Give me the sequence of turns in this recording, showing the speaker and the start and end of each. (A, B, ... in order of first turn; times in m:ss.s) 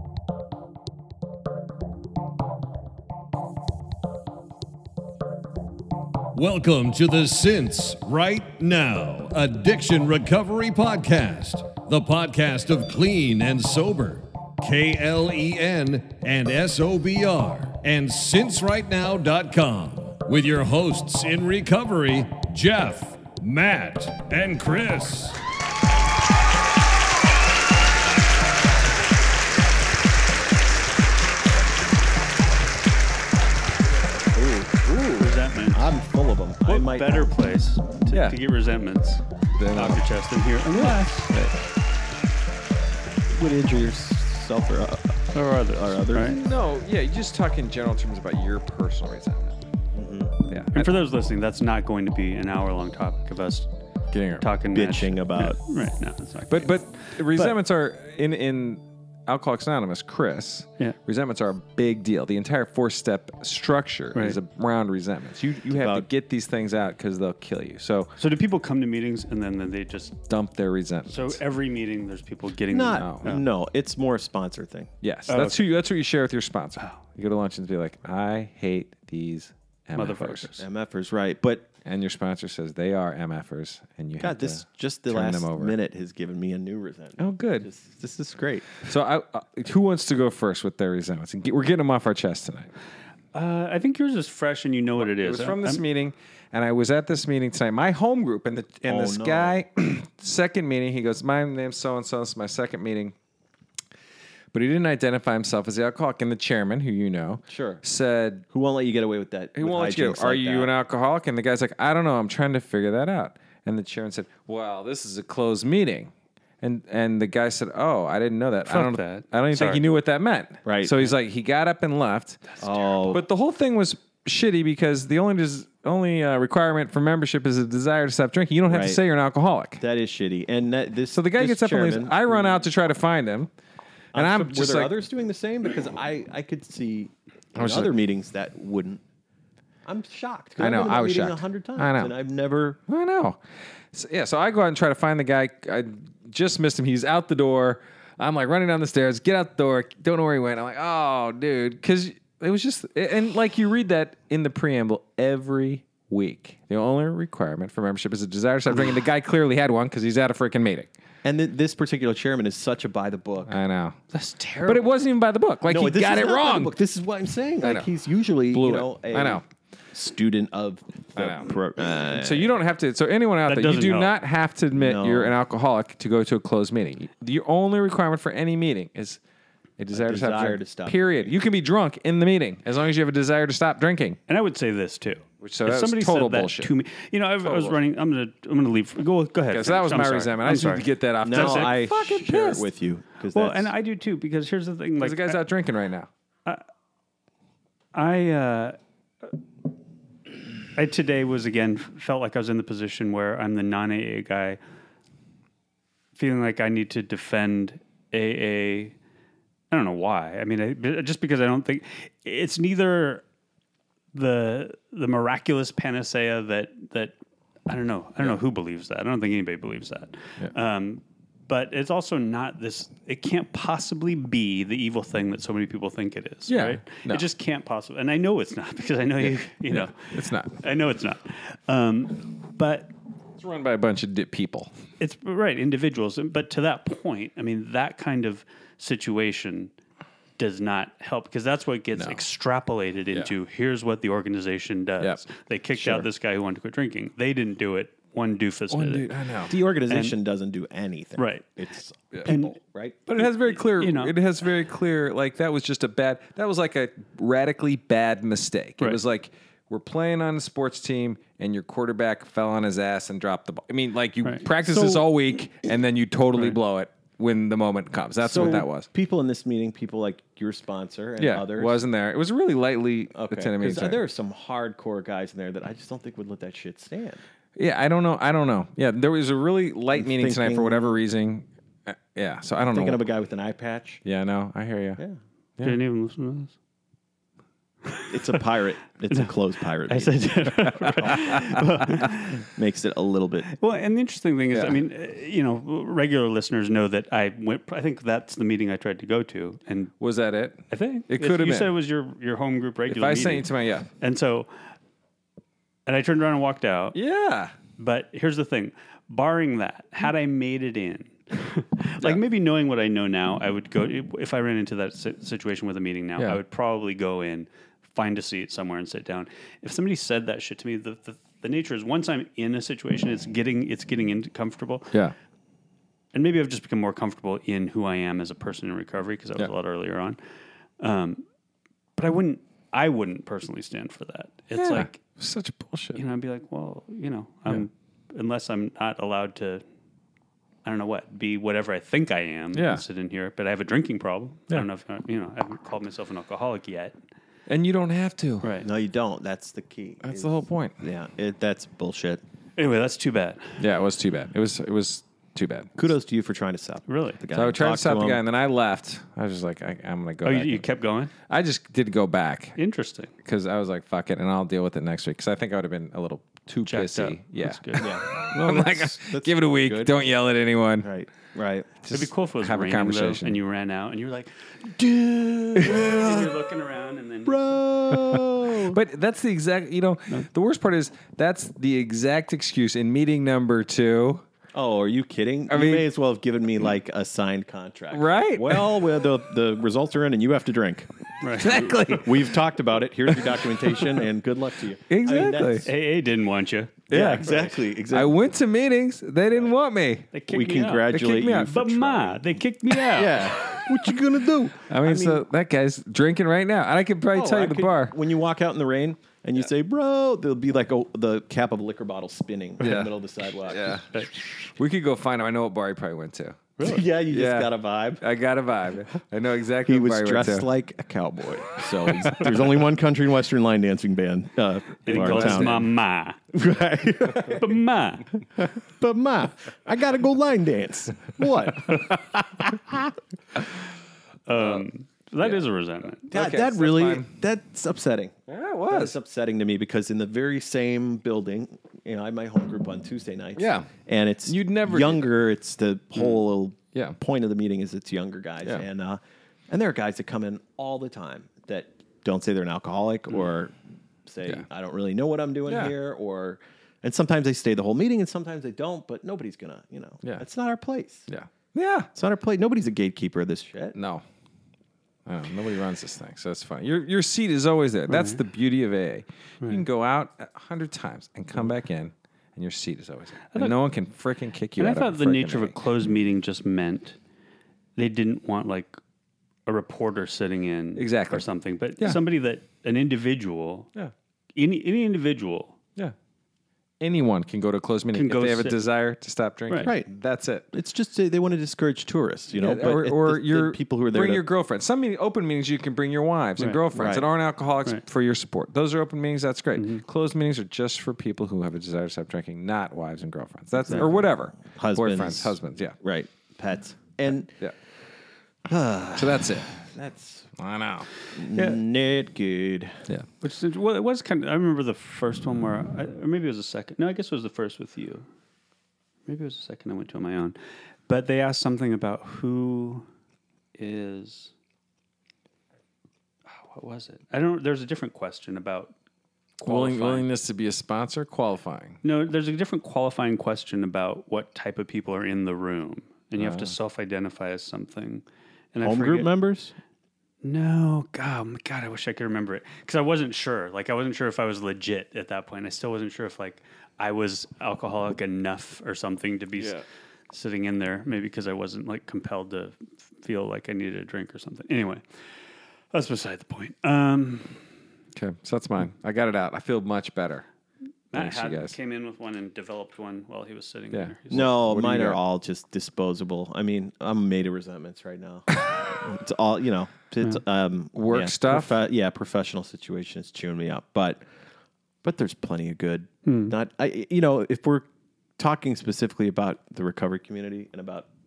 0:06.3-0:25.4 A
0:34.3-0:37.3 B
0:35.2-0:36.0 C
0:36.6-0:41.3 C
0:38.1-0:38.4 D
0:39.6-0:40.0 D
0:40.7-0:41.6 D
0:43.3-0:46.4 B
0:45.3-0:46.4 C
0:46.2-0:49.6 D
0:49.9-0:50.4 B
0:50.5-0:51.0 D
0:50.7-0:53.7 C
0:54.1-0:54.5 D
0:54.3-0:57.6 C
0:54.7-0:55.6 B
0:56.5-1:08.2 D
1:04.1-1:04.4 C
1:05.8-1:06.0 B
1:08.2-1:10.2 C
1:10.3-1:11.4 D
1:11.1-1:13.4 C
1:12.7-1:14.9 B
1:13.0-1:13.3 D
1:15.0-1:20.5 D
1:15.3-1:15.6 C
1:20.0-1:20.6 C
1:20.6-1:21.7 B
1:21.8-1:25.8 D
1:24.2-1:28.8 B
1:27.2-1:27.7 D
1:28.8-1:32.7 D
1:33.3-1:35.8 C
1:35.0-1:43.2 D
1:38.9-1:39.6 B
1:44.5-1:48.5 D
1:47.5-1:47.8 B
1:48.5-1:50.7 B
1:49.6-2:02.4 D
1:58.7-1:59.8 C
2:00.6-2:01.0 B
2:02.6-2:03.2 B
2:03.0-2:09.8 D
2:08.7-2:09.0 B
2:09.8-2:12.5 B
2:11.1-2:13.5 D
2:14.1-2:14.9 D
2:14.1-2:19.0 B
2:17.6-2:17.9 D
2:19.9-2:22.8 B
2:20.6-2:22.1 D
2:22.9-2:23.4 D
2:23.9-2:40.9 D
2:41.2-2:43.6 B
2:43.5-2:44.0 D
2:44.1-2:44.9 C
2:44.6-2:46.8 D
2:45.7-2:52.5 B
2:47.6-2:47.9 D
2:48.5-2:49.4 D
2:51.2-2:51.6 D
2:52.1-2:59.2 D
2:53.5-2:54.2 C
2:54.7-2:55.3 B
2:59.8-3:04.2 D
2:59.9-3:01.3 B
3:04.3-3:11.8 C
3:05.4-3:06.7 D
3:07.4-3:07.8 D
3:09.5-3:12.7 D
3:11.2-3:13.7 B
3:13.3-3:15.4 C
3:15.0-3:16.1 D
3:17.9-3:18.8 C
3:20.7-3:24.6 C
3:26.2-3:29.0 C
3:29.7-3:33.2 C
3:34.1-3:37.2 C
3:37.7-3:52.9 C
3:46.5-3:47.3 D
3:49.2-3:50.6 D
3:53.4-3:54.7 D
3:55.0-3:59.7 C
4:00.4-4:09.1 C
4:02.0-4:02.2 D
4:05.0-4:05.2 D
4:08.7-4:09.6 D
4:09.5-4:13.0 B
4:09.9-4:10.2 C
4:11.2-4:11.5 C
4:12.2-4:12.6 C
4:13.1-4:28.9 D
4:13.2-4:14.2 C
4:24.2-4:25.0 C
4:28.2-4:31.8 B
4:31.2-4:34.0 D
4:33.1-4:37.2 B
4:37.6-4:43.0 D
4:39.9-4:41.0 B
4:42.7-4:44.0 B
4:44.0-4:45.0 D
4:45.6-4:46.5 C
4:48.1-4:50.2 B
4:49.9-4:52.4 C
4:51.0-4:51.4 B
4:52.4-4:53.5 B
4:53.5-4:59.9 C
5:00.0-5:01.7 D
5:00.7-5:04.5 C
5:02.9-5:03.9 D
5:05.9-5:07.0 C
5:07.0-5:07.6 D
5:07.8-5:25.0 C
5:26.1-5:30.2 C
5:30.8-5:31.2 C
5:32.0-5:35.0 C
5:34.6-5:36.0 D
5:36.0-5:39.6 C
5:40.6-5:47.0 C
5:42.5-5:42.8 D
5:47.5-5:48.5 D
5:48.4-5:48.7 C
5:48.6-5:52.2 B
5:50.0-5:50.8 D
5:52.6-5:53.6 C
5:53.6-5:55.7 D
5:55.8-5:58.2 B
5:56.9-5:57.2 C
5:57.3-6:00.6 D
6:00.2-6:01.1 C
6:01.3-6:02.6 D
6:02.6-6:03.1 C
6:03.2-6:10.9 D
6:06.7-6:08.0 C
6:07.8-6:10.0 B
6:10.8-6:11.8 B
6:11.8-6:13.4 D
6:11.9-6:14.7 C
6:14.8-6:16.3 B
6:15.6-6:17.6 C
6:17.3-6:18.8 B
6:17.9-6:24.2 D
6:24.5-6:30.9 B
6:25.5-6:25.9 D
6:27.9-6:28.8 D
6:31.2-6:31.9 C
6:31.4-6:32.4 D
6:31.9-6:35.7 B
6:33.1-6:34.0 D
6:34.9-6:35.7 D
6:35.6-6:37.5 C
6:36.9-6:37.3 D
6:36.9-6:38.2 B
6:37.9-6:40.1 D
6:40.1-6:43.3 C
6:40.3-6:42.3 B
6:40.9-6:41.7 D
6:42.8-6:45.2 B
6:44.7-6:48.0 D
6:47.1-6:53.8 B
6:52.6-7:00.5 D
6:56.6-6:58.0 B
6:59.7-7:05.6 B
7:01.8-7:02.5 D
7:04.8-7:06.2 C
7:04.9-7:05.7 D
7:06.3-7:07.5 B
7:07.2-7:08.1 C
7:08.4-7:13.0 B
7:14.3-7:16.1 C
7:14.3-7:14.6 D
7:16.0-7:17.1 D
7:16.1-7:33.6 B
7:18.3-7:19.0 D
7:23.4-7:23.7 D
7:24.3-7:25.1 D
7:34.1-7:41.1 B
7:35.5-7:35.7 D
7:41.1-7:41.9 D
7:41.9-7:43.8 B
7:43.8-7:44.0 D
7:45.1-7:55.6 D
7:47.9-7:48.2 C
7:53.3-7:53.6 C
7:54.6-7:57.0 C
7:57.8-7:58.8 C
7:59.5-8:03.7 C
8:00.8-8:01.3 D
8:04.4-8:05.6 C
8:06.8-8:10.5 D
8:07.9-8:08.6 C
8:09.5-8:09.7 C
8:09.6-8:09.9 B
8:10.5-8:14.2 B
8:12.3-8:25.8 D
8:16.4-8:16.6 C
8:16.7-8:17.1 B
8:19.6-8:19.8 C
8:23.7-8:27.4 B
8:27.1-8:27.6 D
8:28.4-8:30.3 B
8:29.0-8:29.5 D
8:30.4-8:30.9 D
8:31.1-8:32.8 B
8:33.2-8:38.1 C
8:39.1-8:42.9 C
8:43.6-8:44.3 C
8:46.3-8:48.7 C
8:49.4-8:50.1 C
8:49.4-8:51.8 D
8:51.8-8:59.1 C
8:56.2-8:56.5 D
8:58.6-8:59.5 B
9:00.2-9:14.8 C
9:09.4-9:09.6 D
9:15.7-9:17.4 C
9:18.0-9:20.2 D
9:20.9-9:24.3 C
9:20.9-9:21.6 D
9:23.7-9:25.0 D
9:24.1-9:34.0 B
9:30.7-9:31.6 D
9:34.8-9:37.7 B
9:36.0-9:36.4 C
9:38.2-9:40.9 B